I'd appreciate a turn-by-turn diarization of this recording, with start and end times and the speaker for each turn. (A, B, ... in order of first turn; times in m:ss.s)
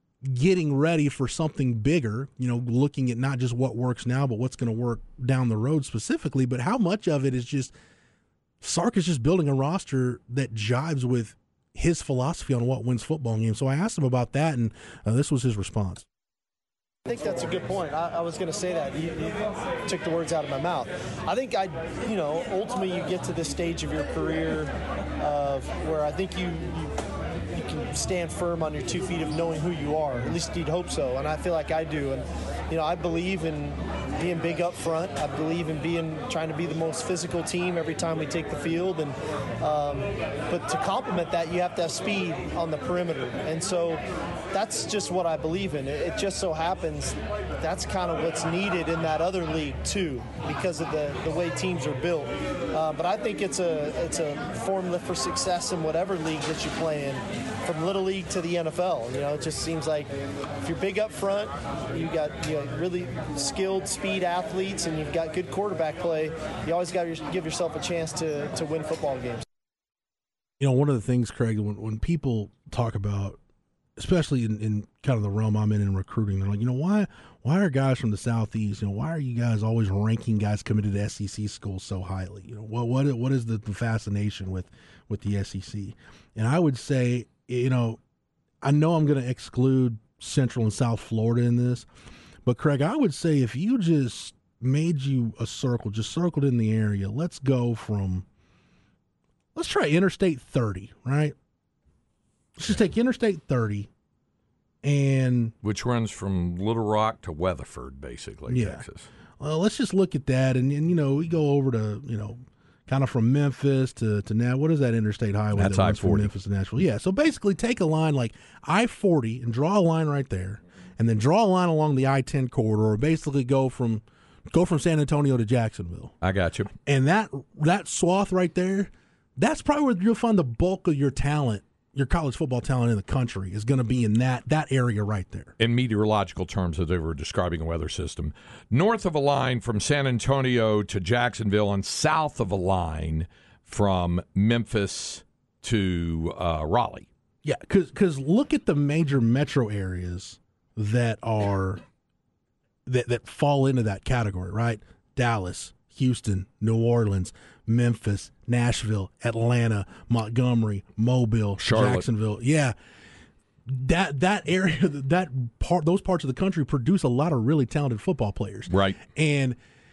0:00.2-0:07.7 A
0:08.6-0:16.1 A
0:17.1-0:27.0 B
0:27.5-1:09.4 B
1:10.6-1:13.4 A
1:14.0-1:28.0 A
1:28.6-1:31.9 A
1:32.4-1:38.3 A
1:39.6-1:41.4 A
1:42.6-1:43.9 A
1:44.8-1:45.6 A
1:45.6-1:49.1 C
1:48.5-1:48.8 A
1:49.4-2:06.2 A
1:55.6-1:56.3 C
2:06.2-2:06.7 C
2:06.9-2:15.5 A
2:15.6-2:27.1 C
2:27.4-2:31.8 A
2:32.9-2:42.8 A
2:41.6-2:42.1 C
2:43.7-2:49.6 A
2:48.7-2:49.0 C